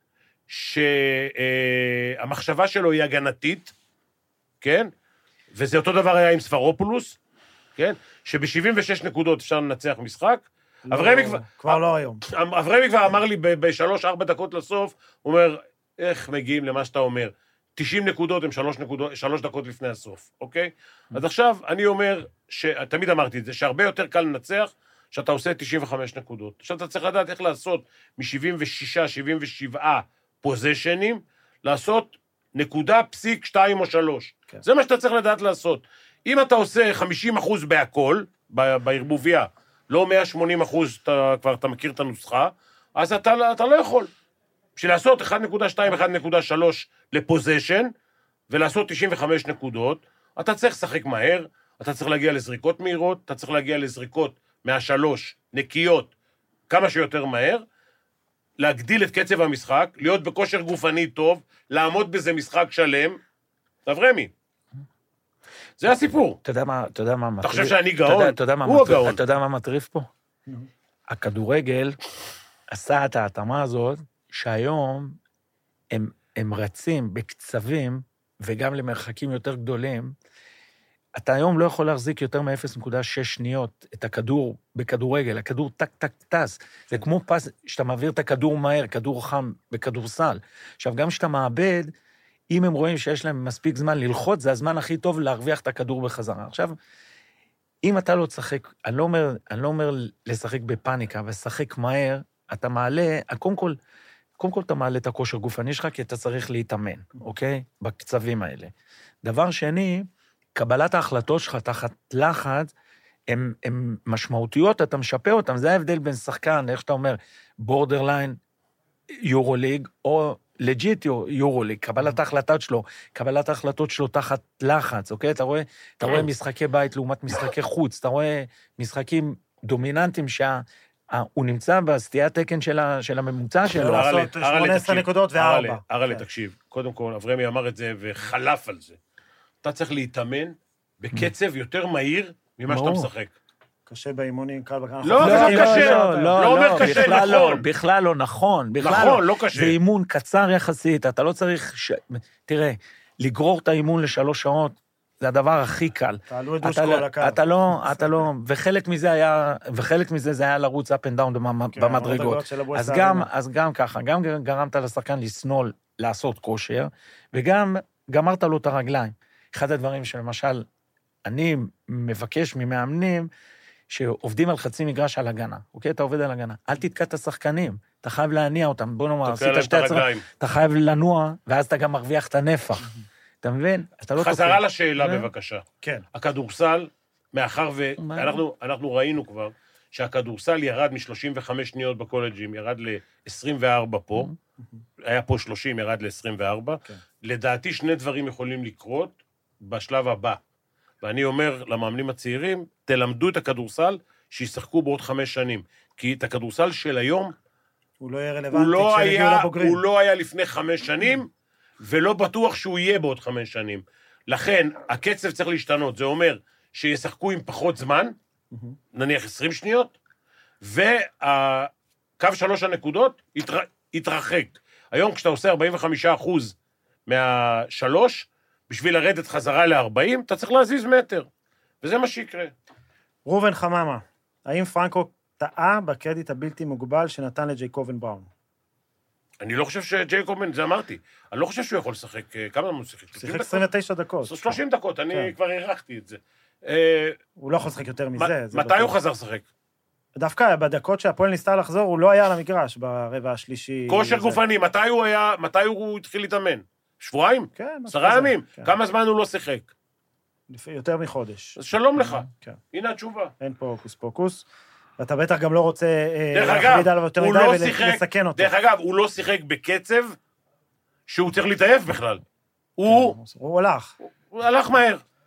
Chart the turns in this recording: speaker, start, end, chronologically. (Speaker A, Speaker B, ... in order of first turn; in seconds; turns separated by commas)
Speaker A: 0.5-3.7, Speaker A: 4.6-4.9, Speaker A: 5.5-7.2, Speaker A: 7.8-44.1, Speaker B: 10.8-12.2, Speaker A: 44.8-47.9, Speaker A: 48.5-56.1, Speaker A: 56.7-57.6, Speaker A: 58.6-63.2, Speaker A: 63.9-64.3, Speaker A: 65.8-66.4, Speaker C: 66.4-70.1, Speaker A: 67.4-69.2, Speaker C: 71.1-72.0, Speaker C: 72.7-75.2, Speaker C: 75.9-80.1, Speaker C: 81.2-91.9, Speaker C: 92.5-96.7, Speaker C: 97.8-103.8, Speaker C: 104.4-108.7, Speaker C: 109.2-112.7, Speaker C: 113.3-118.4, Speaker C: 119.2-134.3, Speaker B: 133.7-136.2, Speaker A: 133.8-139.0, Speaker A: 139.6-143.3, Speaker C: 142.7-143.1, Speaker B: 143.9-147.4, Speaker A: 145.0-147.6, Speaker C: 145.2-170.6, Speaker A: 148.8-149.8, Speaker B: 156.3-157.4, Speaker B: 161.7-163.3, Speaker C: 171.2-173.3, Speaker C: 173.9-182.9, Speaker A: 179.2-180.2, Speaker C: 183.4-185.3, Speaker A: 184.2-194.3, Speaker C: 188.0-188.4, Speaker A: 195.0-200.4, Speaker A: 201.0-207.3, Speaker B: 208.0-209.8, Speaker A: 208.5-218.1, Speaker B: 218.5-218.8, Speaker A: 218.9-219.9, Speaker A: 220.6-226.5, Speaker A: 227.1-231.3, Speaker A: 231.8-232.5, Speaker B: 233.2-238.3, Speaker A: 239.4-243.7, Speaker B: 243.2-244.6, Speaker A: 244.2-247.2, Speaker B: 247.4-248.9, Speaker A: 248.2-249.4, Speaker B: 250.2-254.4, Speaker A: 253.9-259.7, Speaker B: 257.6-258.7, Speaker B: 260.5-261.6, Speaker A: 261.6-263.3, Speaker B: 262.3-262.6, Speaker B: 263.4-264.4, Speaker B: 265.0-268.5, Speaker A: 266.3-270.1, Speaker A: 271.1-272.2, Speaker A: 272.8-273.1, Speaker B: 272.9-273.9, Speaker A: 274.0-275.0